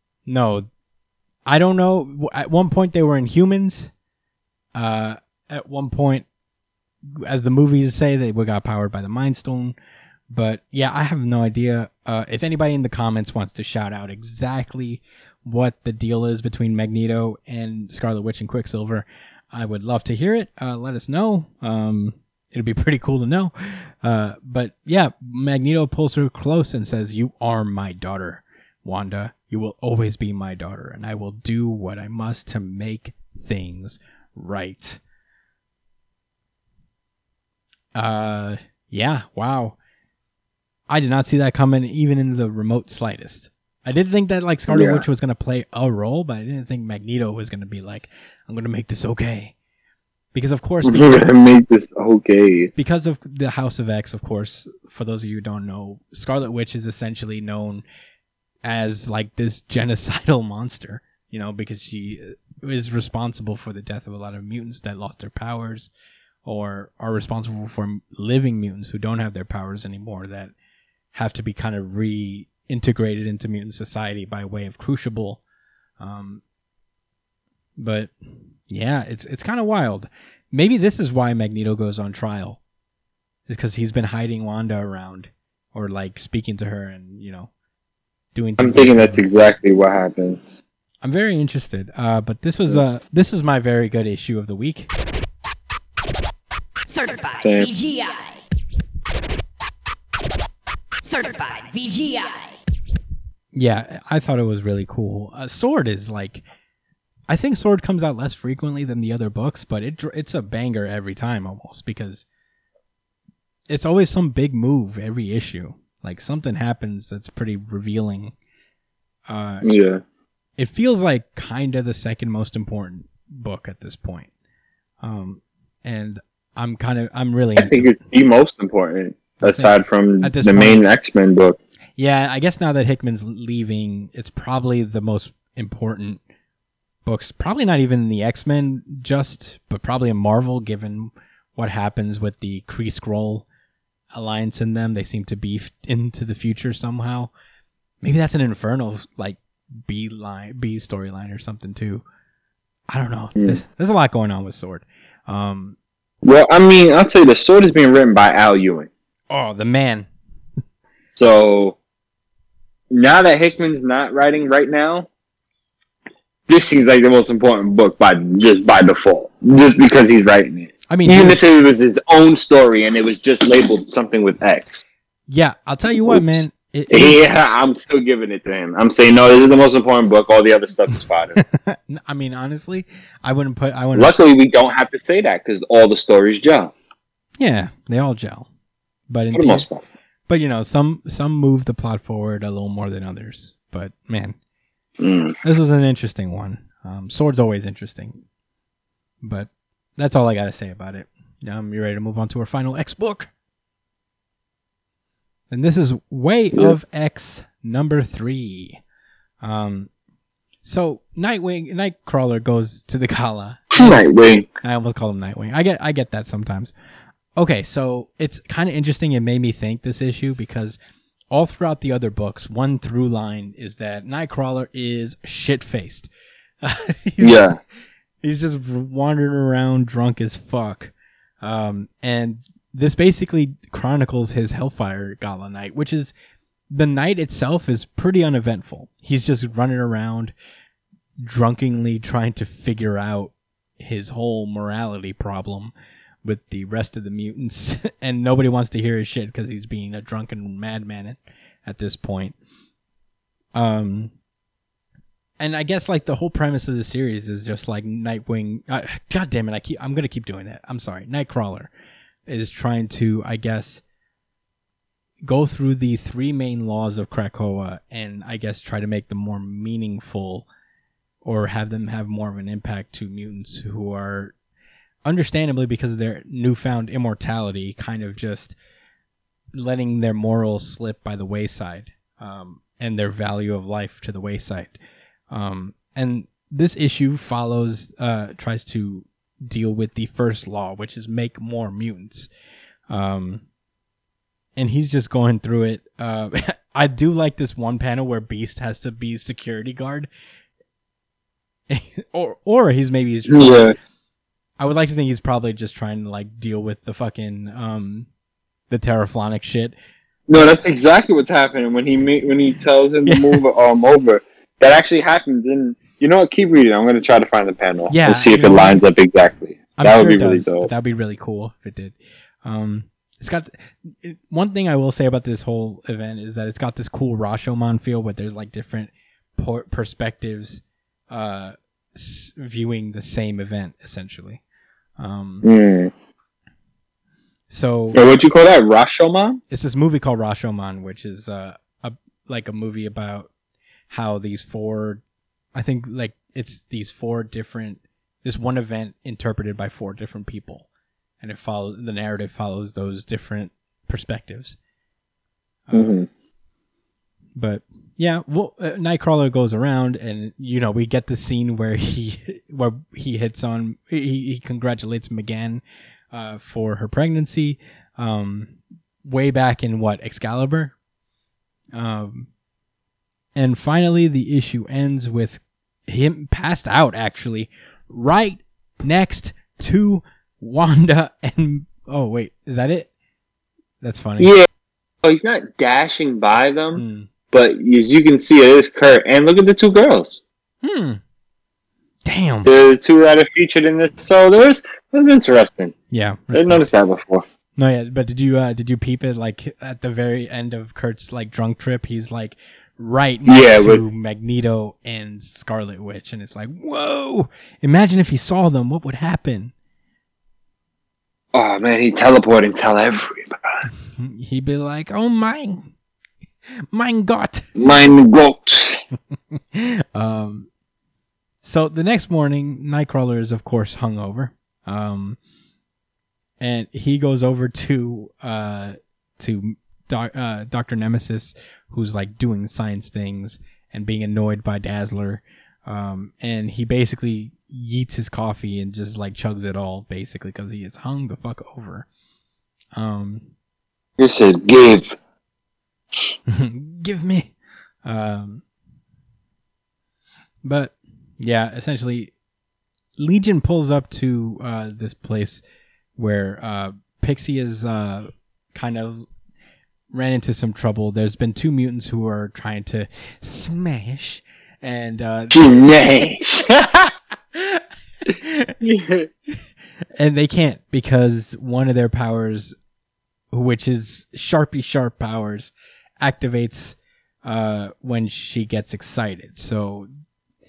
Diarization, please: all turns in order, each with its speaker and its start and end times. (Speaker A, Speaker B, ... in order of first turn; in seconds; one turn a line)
Speaker A: 0.3-0.7
Speaker A: 1.5-3.9
Speaker A: 4.7-6.2
Speaker A: 7.0-9.8
Speaker A: 10.3-35.0
Speaker A: 37.9-39.8
Speaker A: 40.9-49.5
Speaker B: 44.7-45.0
Speaker A: 50.3-51.3
Speaker B: 50.8-52.7
Speaker A: 52.7-57.8
Speaker A: 58.6-65.9
Speaker A: 66.4-70.5
Speaker A: 71.1-75.4
Speaker A: 76.0-76.4
Speaker A: 77.8-82.6
Speaker A: 83.5-87.5
Speaker A: 88.3-89.2
Speaker B: 88.6-90.6
Speaker A: 91.0-94.9
Speaker C: 96.9-98.4
Speaker B: 97.4-97.7
Speaker C: 101.0-102.6
Speaker A: 103.5-106.4
Speaker A: 107.3-112.2
Speaker A: 113.7-118.3
Speaker A: 119.3-119.7
Speaker B: 119.6-120.0
Speaker A: 120.6-124.3
Speaker A: 125.0-127.9
Speaker B: 127.6-131.6
Speaker A: 129.4-130.8
Speaker A: 132.0-136.2
Speaker A: 137.0-143.4
Speaker A: 144.1-147.3
Speaker A: 148.0-152.0
Speaker A: 152.9-155.8
Speaker B: 156.2-158.9
Speaker A: 159.3-160.1
Speaker B: 161.2-161.8
Speaker B: 162.9-165.1
Speaker B: 166.5-174.8
Speaker A: 170.9-171.4
Speaker A: 175.3-177.2
Speaker B: 176.1-181.4
Speaker A: 181.3-184.1
Speaker B: 183.9-186.7
Speaker A: 187.4-188.5
Speaker A: 189.1-189.6
Speaker B: 189.3-189.8
Speaker A: 190.3-194.3
Speaker B: 195.0-195.3
Speaker A: 195.4-198.2
Speaker A: 199.2-203.3
Speaker A: 205.5-208.8
Speaker A: 209.4-209.9
Speaker A: 210.6-214.0
Speaker B: 213.7-214.5
Speaker A: 214.6-216.7
Speaker A: 217.3-220.8
Speaker A: 221.3-226.1
Speaker A: 226.6-227.5
Speaker B: 227.2-227.6
Speaker A: 228.2-236.1
Speaker A: 236.7-240.3
Speaker A: 241.2-245.7
Speaker A: 246.2-252.3
Speaker A: 253.5-254.1
Speaker A: 255.4-261.7
Speaker A: 262.3-263.8
Speaker A: 265.2-270.5
Speaker A: 271.2-274.3
Speaker A: 275.0-278.6
Speaker A: 279.5-284.8
Speaker A: 285.3-292.3
Speaker A: 292.9-293.4
Speaker A: 294.6-300.1
Speaker A: 301.7-303.8
Speaker B: 303.3-303.8
Speaker A: 304.6-308.1
Speaker A: 308.7-309.7
Speaker B: 310.3-320.7
Speaker A: 313.1-313.4
Speaker A: 317.9-318.8
Speaker A: 319.8-334.4
Speaker A: 335.0-335.4
Speaker B: 335.4-335.9
Speaker A: 337.5-338.0
Speaker B: 337.9-339.4
Speaker A: 339.5-343.3
Speaker A: 343.9-345.0
Speaker A: 345.5-350.6
Speaker A: 351.2-354.6
Speaker A: 355.7-355.9
Speaker B: 355.7-356.1
Speaker A: 357.3-368.5
Speaker A: 369.0-370.7
Speaker A: 371.7-372.3
Speaker A: 373.3-382.9
Speaker A: 383.8-384.3
Speaker B: 384.2-384.5
Speaker B: 385.0-390.2
Speaker A: 386.7-387.1
Speaker A: 390.6-391.0
Speaker A: 392.0-392.5
Speaker B: 392.4-395.7
Speaker A: 395.9-396.7
Speaker B: 396.3-397.2
Speaker A: 397.6-409.5
Speaker B: 403.2-403.8
Speaker B: 411.3-413.6
Speaker A: 413.9-415.7
Speaker A: 416.7-417.4
Speaker B: 417.6-418.8
Speaker A: 419.3-420.5
Speaker A: 421.4-425.2
Speaker A: 426.4-441.9
Speaker A: 442.7-443.2
Speaker B: 444.0-444.9
Speaker A: 446.3-447.3
Speaker A: 447.8-448.4
Speaker A: 450.4-452.1
Speaker A: 453.0-455.4
Speaker A: 456.0-459.1
Speaker A: 459.9-466.1
Speaker B: 465.3-466.9
Speaker A: 467.3-468.5
Speaker B: 468.6-469.1
Speaker A: 470.0-472.5
Speaker A: 473.3-479.9